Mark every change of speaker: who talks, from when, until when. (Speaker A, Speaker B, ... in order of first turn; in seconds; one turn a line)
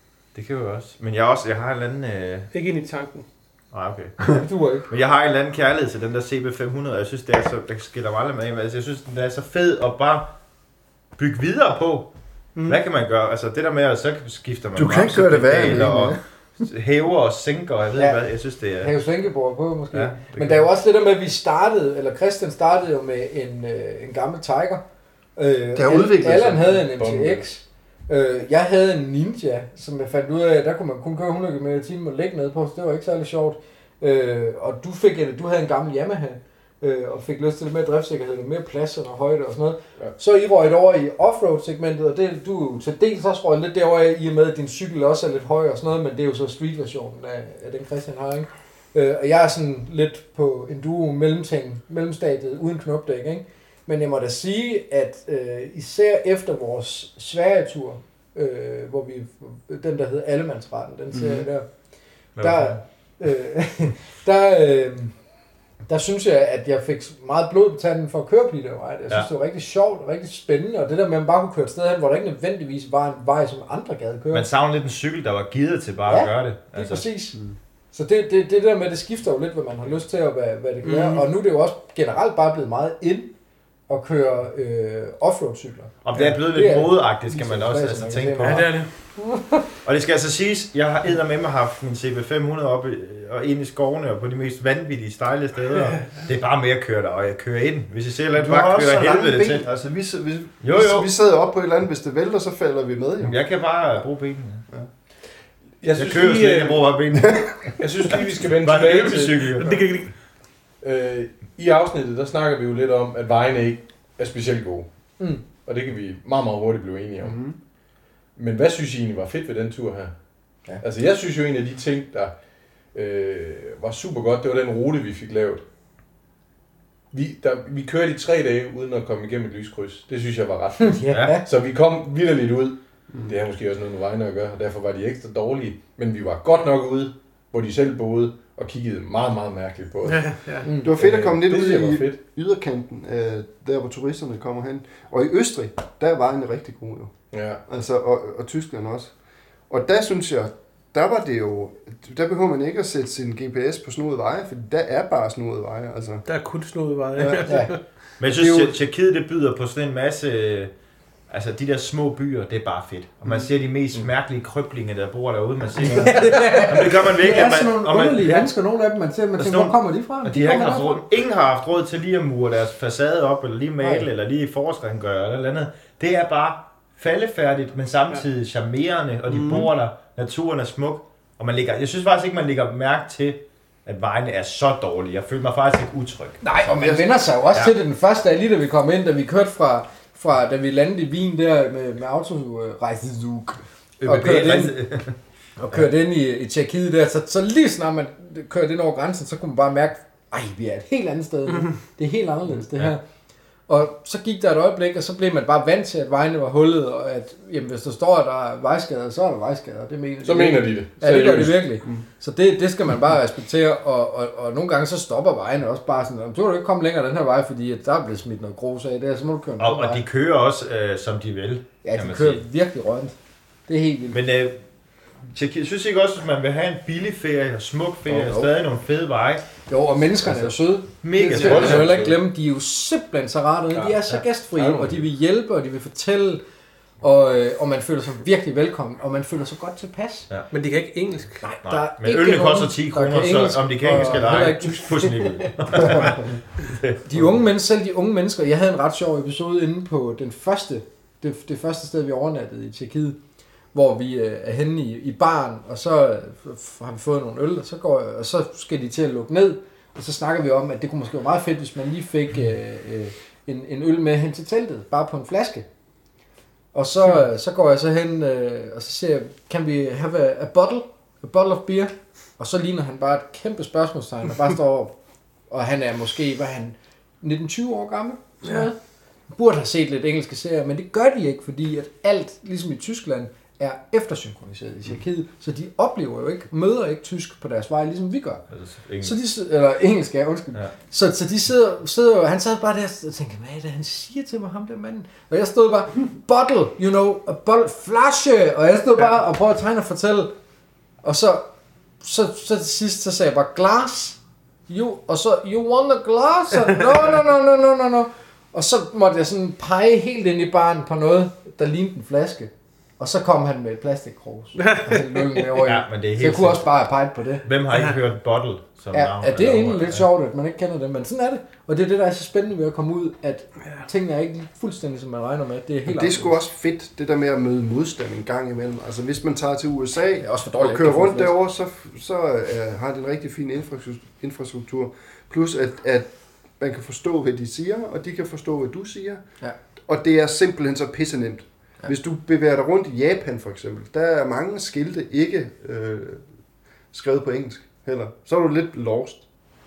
Speaker A: 0.3-2.5
Speaker B: 2.5-3.2
Speaker A: 3.7-10.3
Speaker C: 4.3-4.9
Speaker A: 11.2-12.1
Speaker D: 12.6-12.8
Speaker A: 12.7-18.9
Speaker D: 14.8-16.2
Speaker C: 18.0-18.2
Speaker C: 18.8-24.8
Speaker A: 19.9-20.7
Speaker C: 25.4-61.7
Speaker D: 25.8-26.8
Speaker E: 26.8-27.4
Speaker D: 61.1-61.5
Speaker A: 62.4-62.8
Speaker C: 62.4-65.1
Speaker C: 65.9-74.5
Speaker A: 74.3-77.0
Speaker C: 76.1-77.4
Speaker C: 77.9-83.3
Speaker B: 80.8-81.3
Speaker C: 83.9-89.6
Speaker A: 86.0-88.7
Speaker B: 88.4-88.9
Speaker A: 89.8-99.7
Speaker D: 98.3-103.4
Speaker A: 100.6-101.1
Speaker A: 103.2-104.6
Speaker E: 105.8-106.8
Speaker A: 106.0-107.7
Speaker D: 107.1-107.7
Speaker E: 107.8-109.6
Speaker A: 108.6-109.8
Speaker B: 109.5-110.1
Speaker E: 110.8-114.9
Speaker E: 115.6-117.4
Speaker D: 117.2-117.6
Speaker E: 118.4-120.1
Speaker E: 120.8-122.3
Speaker E: 122.9-125.6
Speaker E: 127.1-140.3
Speaker C: 130.8-131.4
Speaker B: 140.1-140.7
Speaker C: 140.6-140.9
Speaker D: 140.8-147.1
Speaker E: 141.0-142.2
Speaker E: 147.3-147.6
Speaker D: 147.7-149.1
Speaker D: 149.7-156.2
Speaker B: 156.3-157.8
Speaker C: 157.4-157.8
Speaker A: 158.2-160.7
Speaker C: 158.3-158.8
Speaker A: 161.3-168.5
Speaker C: 165.8-170.9
Speaker A: 169.4-186.4
Speaker C: 173.8-174.1
Speaker D: 179.3-179.7
Speaker C: 186.4-194.8
Speaker D: 186.7-187.1
Speaker A: 194.0-195.2
Speaker C: 195.6-203.0
Speaker C: 203.7-220.0
Speaker E: 210.2-211.6
Speaker A: 219.6-222.4
Speaker C: 221.8-223.2
Speaker C: 223.7-224.2
Speaker A: 224.1-224.6
Speaker A: 225.3-229.4
Speaker C: 228.1-228.5
Speaker C: 229.7-236.4
Speaker A: 231.0-231.9
Speaker E: 231.3-232.2
Speaker E: 233.7-235.0
Speaker C: 237.0-240.3
Speaker B: 240.5-241.4
Speaker C: 241.4-246.2
Speaker A: 241.6-247.0
Speaker C: 247.0-253.2
Speaker C: 253.7-265.7
Speaker C: 266.7-274.9
Speaker C: 275.5-278.8
Speaker C: 279.3-288.4
Speaker A: 288.5-289.2
Speaker C: 289.0-300.4
Speaker C: 301.0-301.5
Speaker C: 302.0-317.5
Speaker B: 314.6-315.4
Speaker A: 315.5-316.7
Speaker A: 317.4-320.1
Speaker C: 318.9-326.4
Speaker D: 325.9-336.1
Speaker C: 330.2-331.4
Speaker D: 336.6-339.2
Speaker D: 339.9-346.2
Speaker D: 346.9-349.2